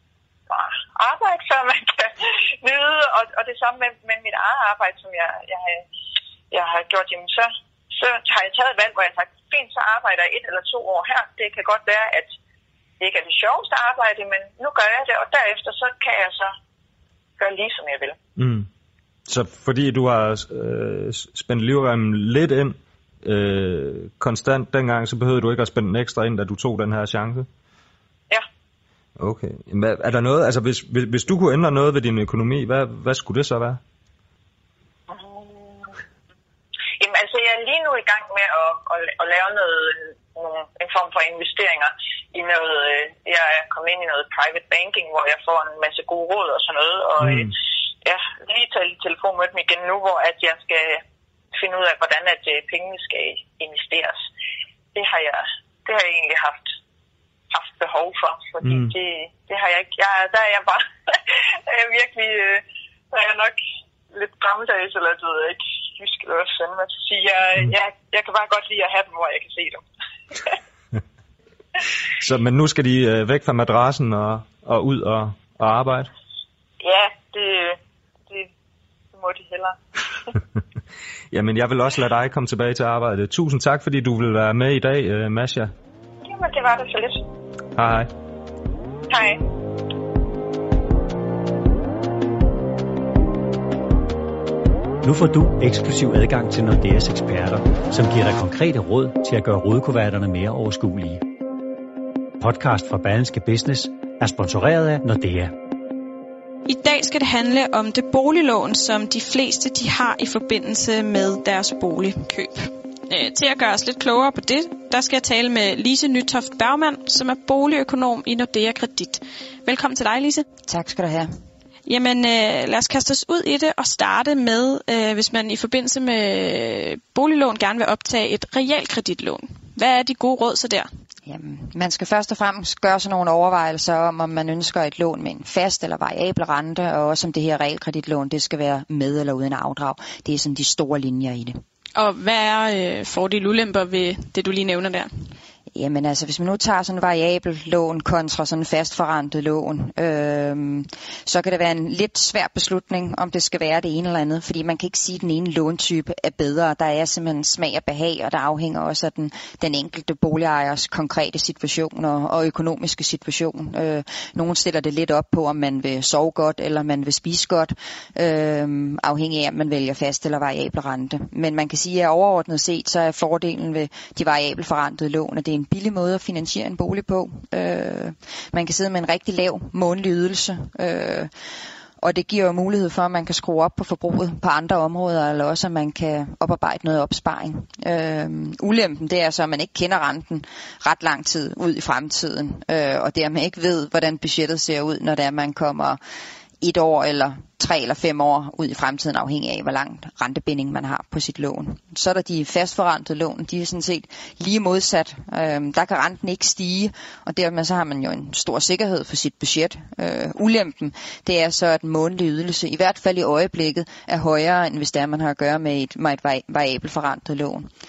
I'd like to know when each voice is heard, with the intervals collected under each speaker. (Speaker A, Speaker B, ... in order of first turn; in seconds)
Speaker A: 0.5-5.8, 6.5-12.3, 13.0-16.6, 17.4-18.2, 35.1-36.0, 37.0-51.0, 51.5-54.2, 55.0-56.7, 57.5-63.6, 64.1-69.8, 76.8-77.8, 79.1-80.3, 86.2-87.2, 89.1-89.4
Speaker B: 18.4-18.7, 19.3-27.5, 29.2-33.8, 47.2-47.5, 58.6-58.9, 72.2-76.1, 81.3-85.7, 87.8-88.1
Speaker C: 95.0-101.3, 102.4-105.6
Speaker D: 106.7-120.5, 121.9-130.9, 142.0-145.1
Speaker E: 120.7-121.3, 131.3-141.6, 145.8-181.3, 182.0-196.0, 196.6-217.7